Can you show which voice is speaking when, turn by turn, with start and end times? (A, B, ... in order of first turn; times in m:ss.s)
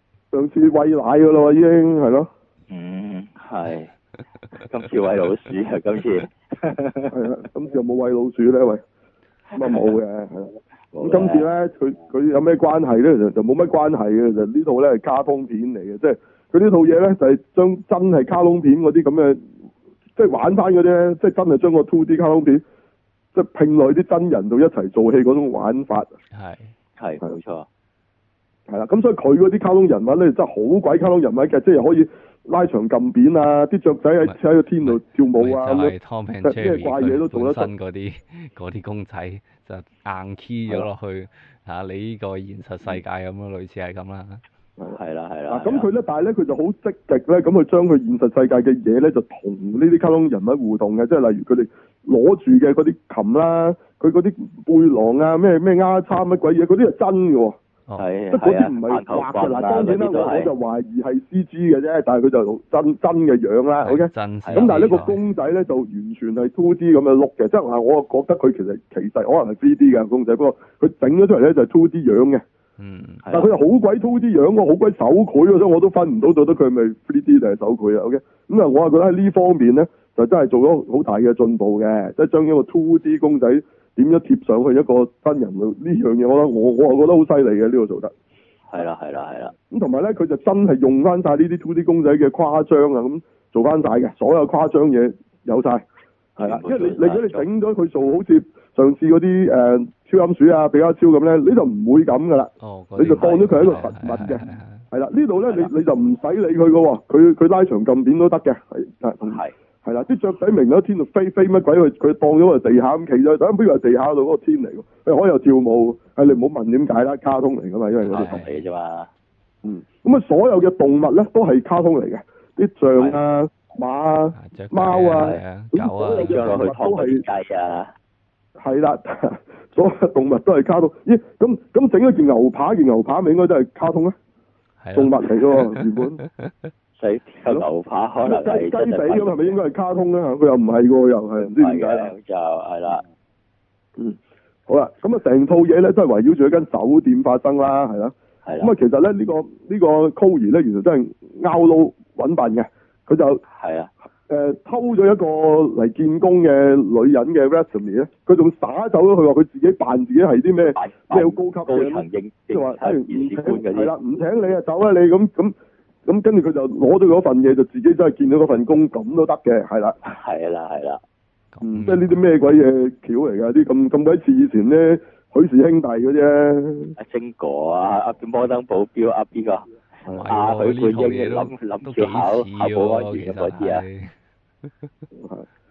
0:00.3-0:02.3 A
0:02.7-0:03.9 B
0:04.6-0:07.1 B
0:07.1-0:08.8 A
0:09.5-0:19.4 A
0:09.6-0:10.0 B
0:10.9-0:11.5 B
0:20.2-0:22.6 A
0:23.3-0:26.1 A
0:26.3-0:26.7 C
0:27.0-0:27.6 B
0:28.7-0:37.7 A
0:34.2-0:44.4 C
0:44.9-0:45.9 B
0:45.5-0:57.6 A
0:58.0-1:00.5 B
0:58.3-1:12.4 A
1:03.8-1:05.2 C
1:04.4-1:04.7 B
1:12.8-1:13.2 C
1:13.2-1:13.5 B
1:13.3-1:28.1 A
1:28.7-1:29.5 B
1:29.7-1:35.8 A
1:36.4-1:58.4 A
1:36.4-1:37.4 B
1:42.6-1:44.8 C
1:58.0-1:58.6 C
1:58.1-1:59.1 B
1:59.6-2:07.2 A
2:04.4-2:06.5 C
2:06.1-2:07.9 B
2:08.6-2:14.1 A
2:14.8-2:16.7 C
2:14.9-2:16.2 A
2:17.0-2:19.6 B
2:18.2-2:22.1 A
2:21.4-2:23.0 B
2:24.0-2:33.4 A
2:28.4-2:28.7 B
2:33.5-2:33.9 B
2:34.3-2:45.5 A
2:40.7-2:43.9 B
2:46.0-2:50.0 A
2:50.0-2:51.0 B
2:51.5-2:52.2 C
2:51.6-2:57.0 A
2:57.0-2:59.7 B
3:00.1-3:04.1 C
3:00.3-3:03.8 B
3:05.2-3:05.4 A